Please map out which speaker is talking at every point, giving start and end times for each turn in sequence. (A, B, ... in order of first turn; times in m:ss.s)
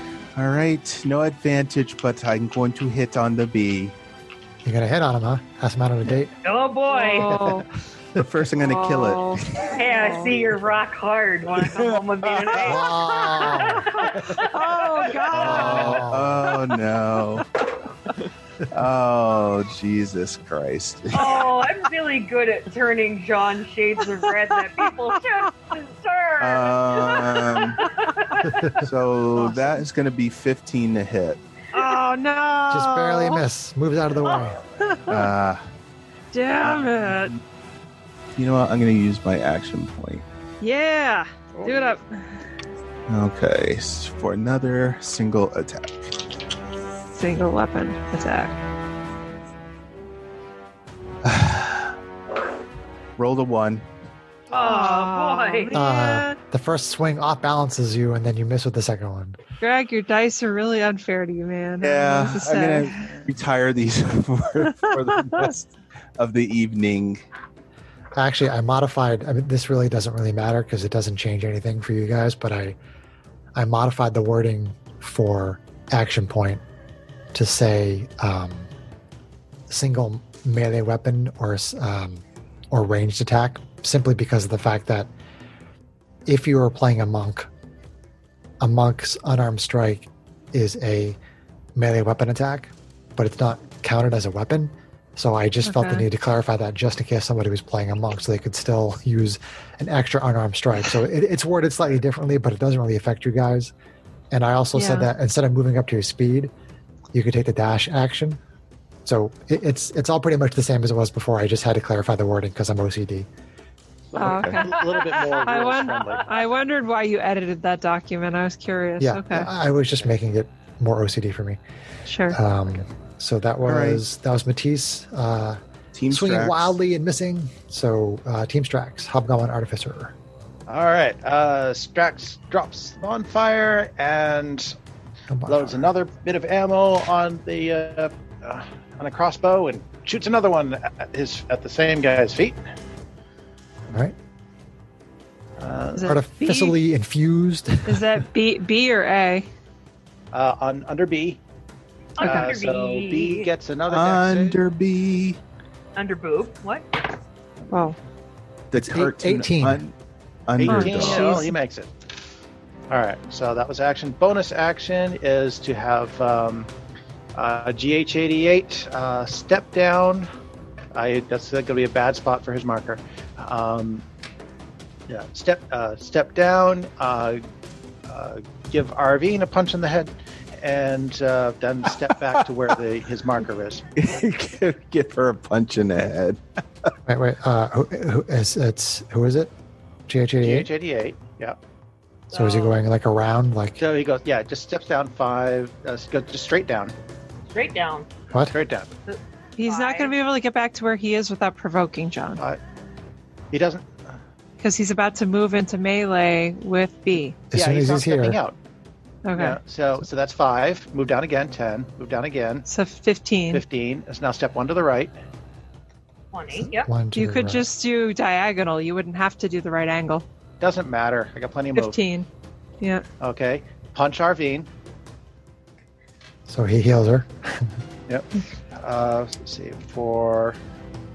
0:00.4-0:04.0 A
0:04.6-0:06.3 B
0:06.4-0:07.6 C
0:06.9-0:07.7 D
0:08.2-0:09.7 A
0:08.6-0:10.3 D
0:09.6-0:14.5 C
0:11.6-0:12.8 A
0:12.6-0:13.9 B
0:13.6-0:16.0 D
0:15.3-0:17.5 A
0:15.5-0:16.5 B
0:18.7-0:21.7 A
0:21.1-0:28.7 C
0:26.4-0:27.8 A
0:28.7-0:31.4 A
0:31.7-0:33.4 D
0:32.7-0:34.6 B
0:34.8-0:35.3 D
0:35.1-0:35.7 A
0:36.3-0:37.3 D
0:36.6-0:37.4 A
0:38.4-0:40.2 A
0:40.6-0:42.4 D
0:41.5-0:42.0 E
0:43.1-0:46.1 A
0:47.1-0:48.6 D
0:51.2-0:52.0 A
0:53.2-0:53.8 A
0:54.5-0:55.8 C
0:54.5-0:56.4 D
0:55.7-0:59.4 B
0:59.6-1:03.2 D
1:01.8-1:07.2 A
1:04.6-1:05.5 D
1:08.2-1:12.8 B
1:13.6-1:16.6 B
1:17.3-1:18.7 B
1:19.7-1:25.1 B
1:26.3-1:27.5 B
1:28.6-1:31.2 B
1:31.8-1:43.7 B
1:35.6-1:36.0 D
1:44.3-1:46.5 B
1:44.8-1:45.1 D
1:47.1-1:48.4 B
1:49.0-1:53.3 B
1:54.1-1:56.3 E
1:54.2-1:54.6 A
1:54.2-1:59.5 D
1:59.0-2:01.6 B
2:02.1-2:02.4 D
2:02.3-2:05.6 B
2:03.6-2:04.0 A
2:05.9-2:06.8 A
2:06.1-2:10.1 B
2:10.7-2:14.8 E
2:15.3-2:15.9 B
2:15.5-2:22.6 E
2:25.6-2:26.2 E
2:26.0-2:26.8 D
2:26.0-2:28.2 B
2:27.9-2:29.5 D
2:30.3-2:31.4 E
2:32.2-2:33.5 C
2:32.2-2:34.6 E
2:32.2-2:32.5 D
2:33.9-2:35.4 A
2:36.0-2:36.9 C
2:37.7-2:38.0 D
2:38.7-2:39.9 A
2:38.8-2:39.8 B
2:40.5-2:41.4 A
2:40.6-2:41.9 E
2:40.7-2:41.5 D
2:42.9-2:46.7 E
2:47.4-2:50.3 E
2:50.9-2:54.0 E
2:55.1-2:57.4 E
2:58.1-3:03.9 E
3:04.0-3:06.9 A
3:07.1-3:09.5 B
3:10.1-3:10.7 B
3:10.4-3:11.6 E
3:12.3-3:12.8 C
3:12.3-3:13.8 B
3:13.8-3:16.9 E
3:17.5-3:18.1 C
3:18.5-3:18.9 E
3:19.1-3:20.1 C
3:19.6-3:22.4 D
3:23.5-3:24.2 E
3:24.6-3:27.4 D
3:27.5-3:28.4 B
3:27.5-3:28.6 E
3:29.2-3:29.6 D
3:29.4-3:32.7 E
3:32.7-3:33.6 D
3:33.5-3:35.1 E
3:36.3-3:36.9 C
3:36.6-3:37.7 B
3:37.1-3:40.2 D
3:40.6-3:42.0 E
3:41.8-3:42.3 D
3:43.2-3:44.7 E
3:46.5-3:47.7 B
3:48.1-3:50.6 E